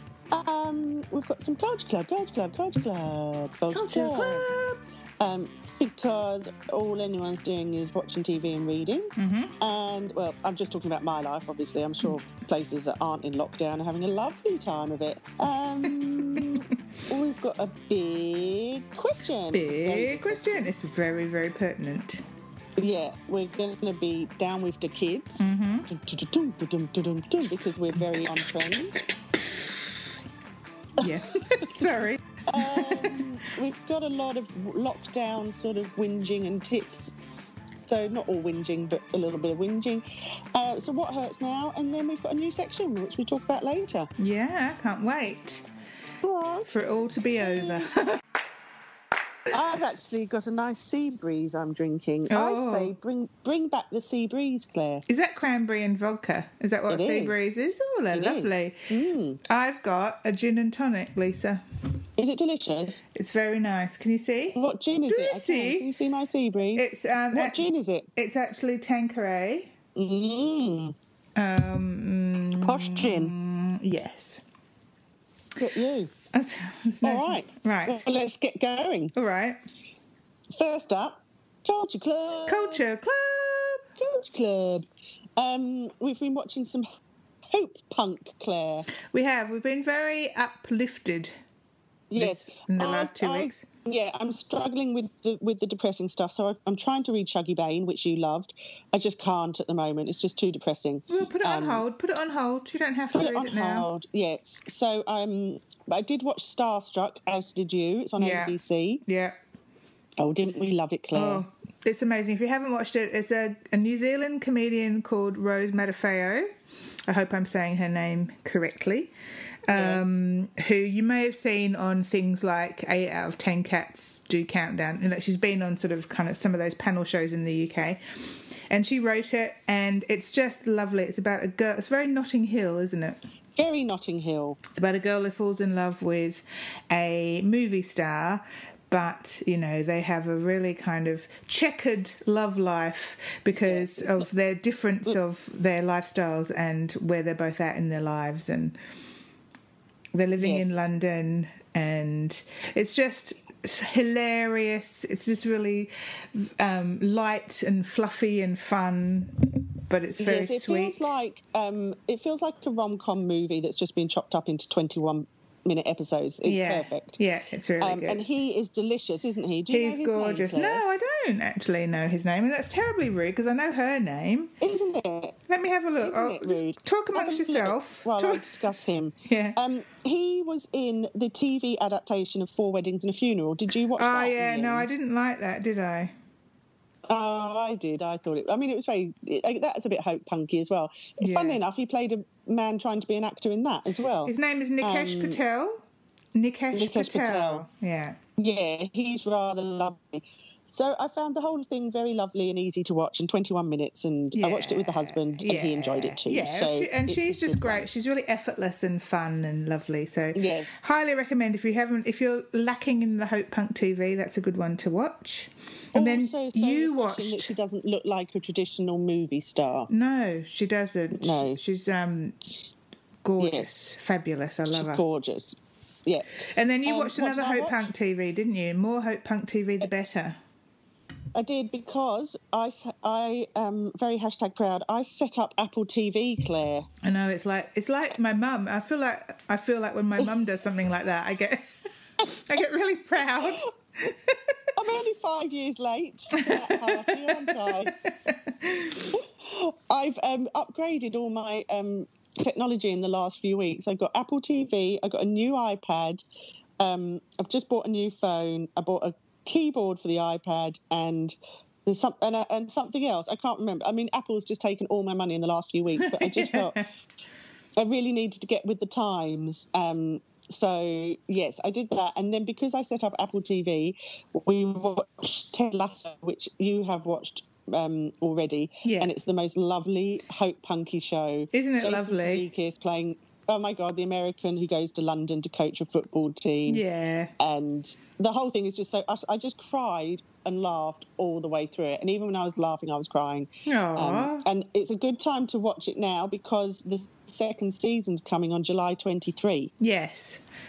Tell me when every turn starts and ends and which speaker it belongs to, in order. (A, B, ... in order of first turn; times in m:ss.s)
0:00.3-0:04.5 A
0:03.7-0:04.8 B
0:05.2-0:20.6 A
0:09.2-0:09.5 B
0:16.3-0:16.6 B
0:19.5-0:22.2 B
0:22.8-0:29.0 A
0:25.4-0:25.9 B
0:28.0-0:30.1 B
0:31.0-0:33.3 B
0:31.0-0:31.7 A
0:32.5-0:37.2 A
0:37.9-0:44.1 A
0:44.2-0:45.6 B
0:46.2-0:46.7 A
0:46.6-0:48.2 B
0:49.5-0:55.0 A
0:52.3-0:52.9 B
0:55.1-0:58.9 B
0:56.9-0:57.5 A
0:58.1-0:59.4 A
0:59.4-1:01.6 B
1:02.2-1:03.0 A
1:03.1-1:05.9 B
1:04.6-1:08.1 A
1:06.8-1:09.7 B
1:10.0-1:11.0 A
1:11.4-1:14.4 B
1:12.6-1:13.3 A
1:15.6-1:16.1 A
1:16.3-1:18.0 B
1:17.0-1:19.1 A
1:19.1-1:19.6 B
1:20.6-1:22.8 A
1:22.5-1:23.8 B
1:24.0-1:24.9 A
1:25.4-1:26.9 A
1:27.5-1:28.9 A
1:29.1-1:31.3 B
1:32.1-1:41.8 A
1:32.2-1:33.6 B
1:41.1-1:43.9 B
1:43.1-1:49.0 A
1:48.2-1:49.4 B
1:50.2-1:51.4 A
1:51.1-1:56.5 B
1:57.1-1:59.1 B
1:59.7-2:13.2 B
1:59.7-2:00.2 A
2:13.5-2:14.6 A
2:14.7-2:28.8 B
2:23.5-2:24.3 A
2:30.1-2:41.1 B
2:30.4-2:30.9 A
2:40.2-2:47.2 A
2:46.4-2:48.2 B
2:47.8-2:50.8 A
2:49.7-2:54.6 B
2:54.6-2:55.4 A
2:55.5-2:58.6 B
2:56.0-3:04.9 A
2:59.2-2:59.6 B
3:04.0-3:06.1 B
3:07.1-3:15.4 A
3:11.2-3:11.6 B
3:14.2-3:15.8 B
3:16.4-3:18.2 B
3:16.7-3:17.6 A
3:18.4-3:27.9 A
3:24.3-3:37.5 B
3:30.4-3:30.8 A
3:35.9-3:39.9 A
3:39.9-3:42.4 B
3:41.1-3:41.6 A
3:43.2-3:45.0 B
3:43.4-3:43.9 A
3:44.7-3:47.9 A
3:46.5-3:50.4 B
3:51.4-3:56.9 A
3:57.0-4:01.7 B
4:02.2-4:04.6 B
4:04.8-4:08.0 A
4:06.4-4:09.2 B
4:09.1-4:16.2 A
4:16.8-4:26.8 A
4:26.0-4:26.9 B
4:27.8-4:46.8 A
4:38.8-4:39.1 B
4:41.5-4:42.4 B
4:46.7-4:47.3 B
4:47.4-4:59.7 A
4:53.7-4:54.5 B
4:59.8-5:00.4 B